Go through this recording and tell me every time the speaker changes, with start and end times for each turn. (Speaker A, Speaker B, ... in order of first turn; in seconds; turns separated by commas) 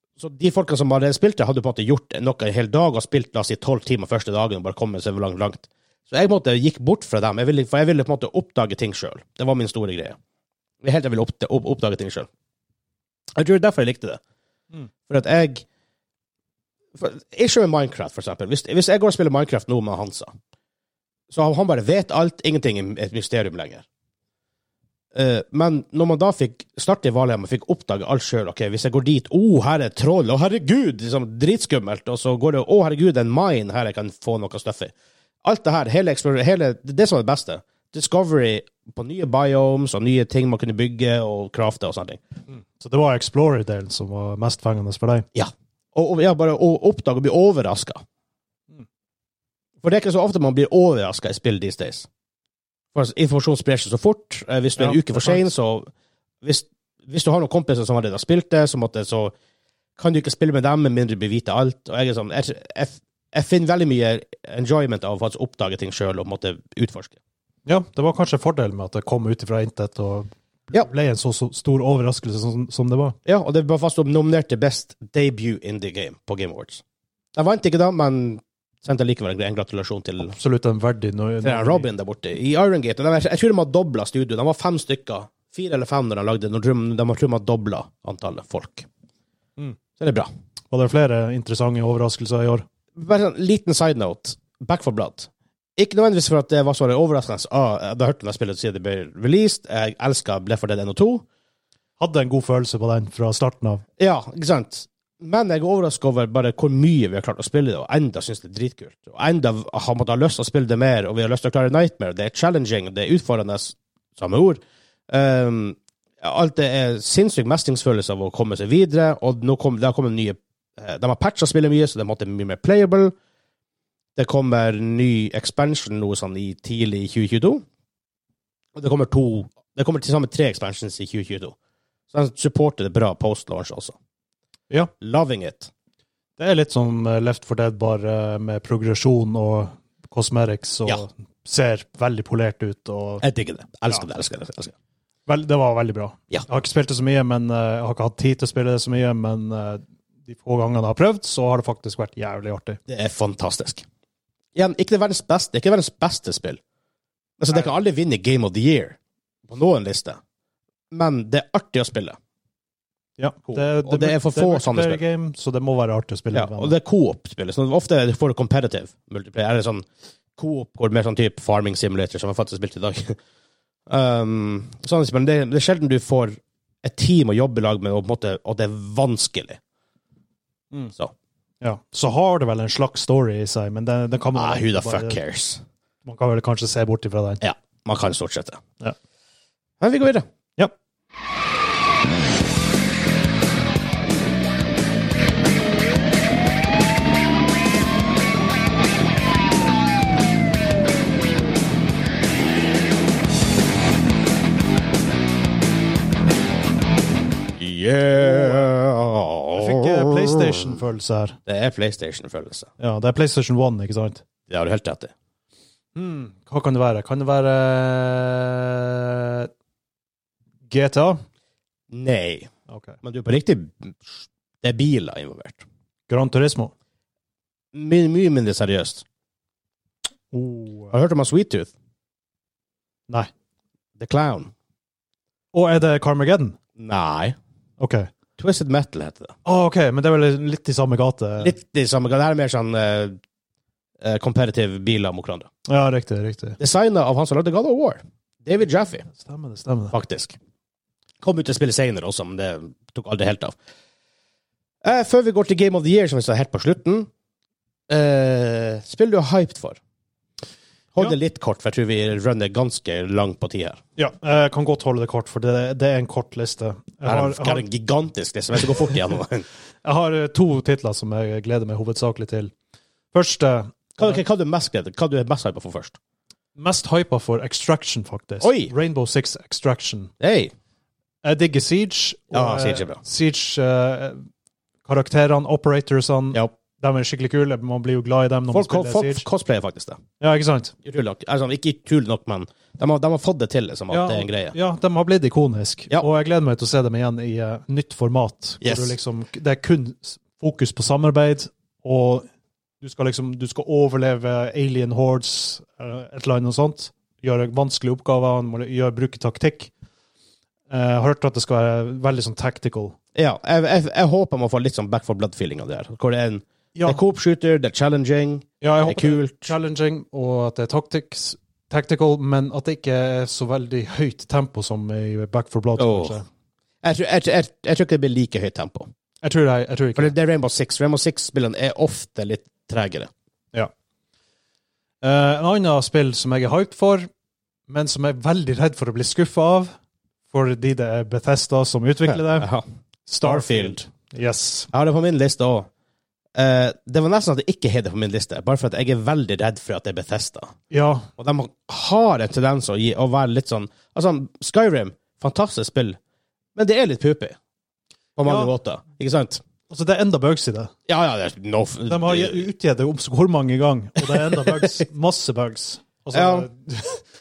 Speaker A: 0.2-10.2, Speaker A: 10.8-12.3, Speaker A: 13.4-14.2, Speaker A: 15.1-15.7, Speaker A: 17.0-20.3, Speaker A: 21.3-23.9, Speaker A: 25.1-34.9, Speaker A: 35.4-42.2, Speaker B: 42.5-45.3, Speaker A: 45.3-48.0, Speaker A: 49.8-52.1, Speaker A: 52.9-55.9, Speaker B: 54.8-55.4, Speaker A: 56.4-59.3, Speaker A: 60.0-67.2, Speaker B: 67.7-73.2, Speaker A: 73.2-76.8, Speaker A: 77.3-80.4, Speaker B: 80.3-81.9, Speaker A: 81.4-88.9, Speaker A: 90.0-90.3, Speaker B: 90.7-92.7, Speaker A: 93.0-101.2, Speaker B: 102.0-103.8, Speaker A: 104.0-123.1, Speaker A: 124.2-127.6, Speaker A: 128.8-131.6, Speaker A: 132.1-133.9, Speaker A: 135.0-135.7, Speaker B: 136.4-143.2, Speaker A: 143.2-144.7, Speaker B: 145.3-152.8, Speaker A: 152.9-153.8, Speaker A: 154.6-156.6, Speaker A: 157.4-159.0, Speaker A: 159.5-160.2, Speaker A: 160.9-162.2, Speaker B: 163.2-166.8, Speaker A: 163.5-165.0, Speaker A: 166.3-169.8, Speaker A: 170.4-173.2, Speaker A: 173.9-179.6, Speaker B: 181.6-185.2, Speaker A: 184.3-185.6, Speaker B: 186.1-187.4, Speaker A: 187.4-188.6, Speaker A: 189.8-190.2, Speaker A: 207.6-210.5, Speaker B: 208.2-208.7, Speaker B: 209.5-211.4, Speaker A: 211.5-212.7, Speaker B: 212.8-214.2, Speaker A: 214.5-215.1, Speaker B: 215.9-219.5, Speaker B: 220.7-221.2, Speaker A: 221.9-222.5, Speaker B: 222.7-223.0, Speaker A: 223.0-225.6, Speaker B: 226.1-226.7, Speaker A: 227.7-229.0, Speaker B: 230.3-230.9, Speaker A: 230.9-231.7, Speaker A: 234.0-234.5, Speaker B: 235.5-236.6, Speaker A: 236.8-237.4, Speaker B: 237.8-238.1, Speaker A: 238.4-239.3, Speaker B: 239.4-241.6, Speaker A: 241.4-243.2, Speaker A: 244.0-245.5, Speaker B: 245.7-246.6, Speaker A: 246.6-249.1, Speaker B: 249.1-249.9, Speaker A: 249.9-250.4, Speaker A: 251.2-253.6, Speaker A: 254.8-257.1, Speaker A: 257.9-259.8, Speaker A: 260.9-263.8, Speaker B: 264.0-267.6, Speaker A: 267.0-269.5, Speaker B: 269.8-272.5, Speaker B: 273.1-274.2, Speaker A: 274.0-276.0, Speaker B: 276.6-280.1, Speaker A: 278.4-278.7, Speaker A: 280.2-280.5, Speaker B: 281.2-284.2, Speaker A: 282.3-283.0, Speaker B: 284.9-289.3, Speaker A: 288.5-290.0, Speaker B: 290.2-290.7, Speaker A: 290.8-294.6, Speaker B: 293.9-302.3, Speaker A: 298.6-298.9, Speaker B: 302.8-309.7, Speaker B: 310.7-313.0, Speaker A: 313.1-319.5, Speaker B: 316.7-317.0, Speaker B: 318.6-326.2, Speaker A: 325.8-326.2, Speaker A: 326.8-328.9, Speaker B: 329.2-330.1, Speaker A: 330.0-333.1, Speaker B: 335.0-337.1, Speaker B: 337.7-339.7, Speaker B: 340.3-342.5, Speaker A: 342.1-342.7, Speaker B: 343.1-344.7, Speaker A: 343.2-343.9, Speaker A: 344.7-345.7, Speaker A: 346.4-350.5, Speaker B: 350.7-351.1, Speaker A: 351.2-356.0, Speaker A: 356.6-357.4, Speaker A: 358.2-359.4, Speaker B: 358.2-358.5, Speaker B: 359.7-360.7, Speaker A: 360.9-362.5, Speaker B: 361.9-367.0, Speaker A: 366.1-366.5